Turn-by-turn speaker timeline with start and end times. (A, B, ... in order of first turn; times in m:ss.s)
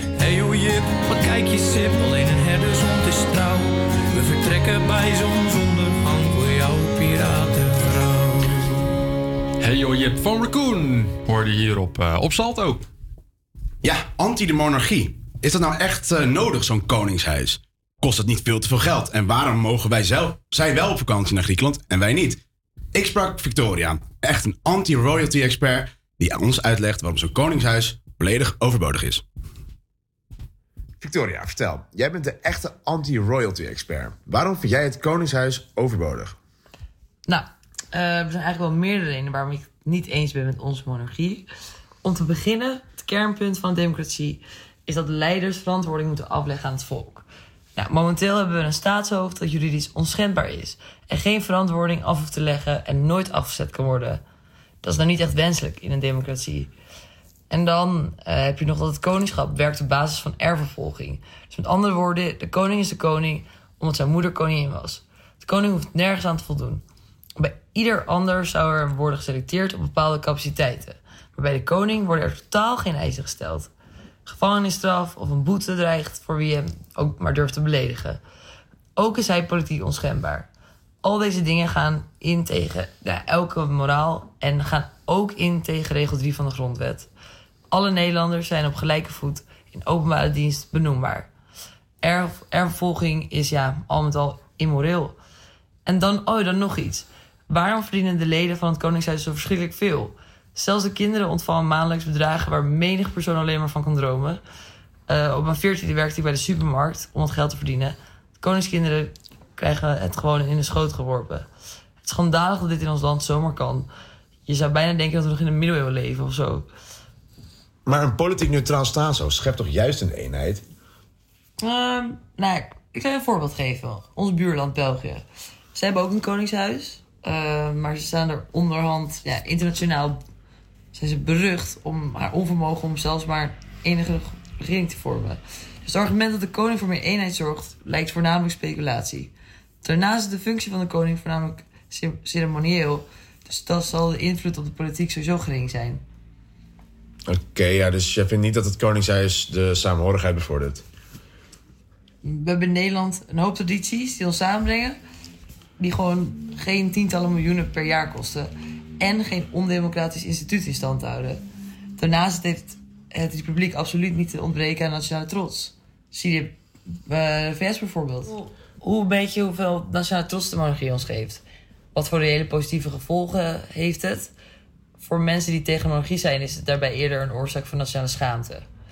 0:00.2-0:07.9 A
0:09.6-0:12.8 B
0:13.8-0:22.4 C
0:22.9-0:29.2 C
0:31.0-0:36.3 D
0:37.3-0:41.4 E
0:42.0-0:47.2 E
0:47.8-0:54.2 E
0:54.8-0:56.7 E
0:57.5-1:06.8 E
1:07.4-1:13.7 E
1:14.2-1:18.2 E
1:19.0-1:20.5 E
1:21.0-1:27.1 E
1:27.7-1:31.3 E
1:32.0-1:35.1 E
1:35.8-1:44.4 E
1:45.1-1:51.4 E
1:52.0-1:53.9 E
1:54.4-1:56.7 E
1:57.8-2:00.6 D
2:01.6-2:05.2 E
2:05.7-2:10.2 E
2:10.9-2:19.3 E
2:19.8-2:26.0 E
2:27.3-2:30.8 D
2:32.2-2:35.0 E
2:35.8-2:41.4 E
2:42.0-2:46.6 E
2:47.1-2:51.4 E
2:51.9-2:54.3 E
2:55.0-2:58.6 E